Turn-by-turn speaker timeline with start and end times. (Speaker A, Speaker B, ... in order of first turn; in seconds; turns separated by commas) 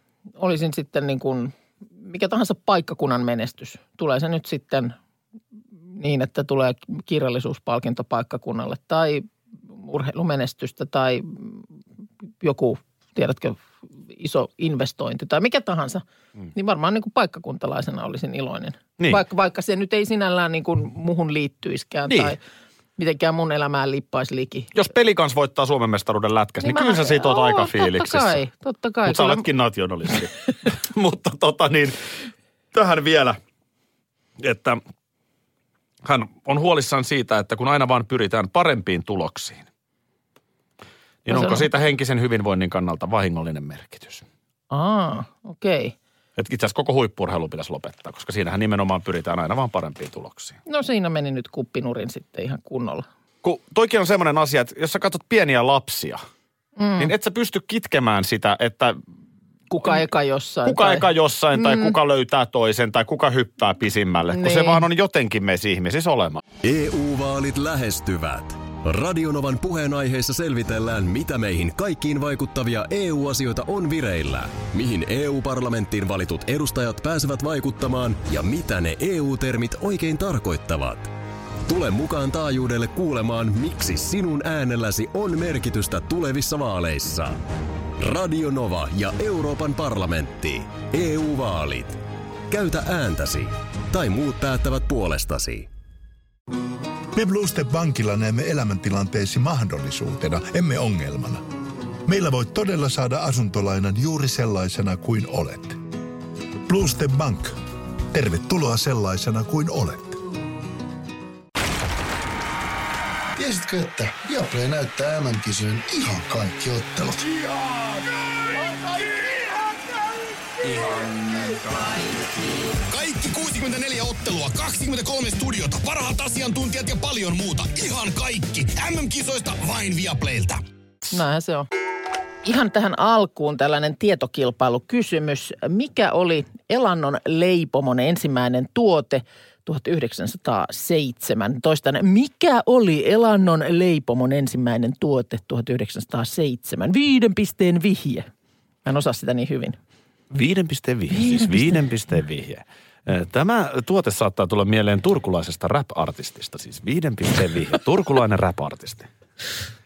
Speaker A: 0.4-5.0, Speaker A: 5.9-11.7, Speaker A: 12.4-22.4, Speaker B: 22.1-22.3, Speaker A: 23.0-24.7, Speaker B: 24.7-28.4, Speaker A: 26.6-29.4, Speaker B: 29.1-33.4, Speaker B: 34.4-34.8, Speaker B: 36.0-39.6, Speaker B: 41.2-44.2, Speaker A: 41.3-41.6, Speaker A: 44.7-45.9, Speaker B: 46.4-50.6, Speaker A: 50.6-53.0, Speaker B: 53.4-56.2, Speaker A: 56.8-57.1, Speaker B: 57.0-59.0, Speaker A: 59.7-61.9, Speaker B: 60.6-66.4, Speaker A: 64.3-64.8, Speaker C: 66.6-81.1, Speaker C: 81.7-87.4, Speaker C: 88.0-95.7, Speaker D: 97.1-101.4, Speaker D: 102.0-105.8, Speaker D: 106.6-107.6, Speaker D: 108.1-110.2, Speaker E: 113.3-117.3, Speaker F: 117.4-117.9, Speaker F: 118.6-119.3, Speaker F: 120.6-130.6, Speaker A: 131.1-131.7, Speaker A: 132.4-148.3, Speaker A: 148.8-149.8, Speaker B: 150.3-159.1, Speaker A: 151.1-151.7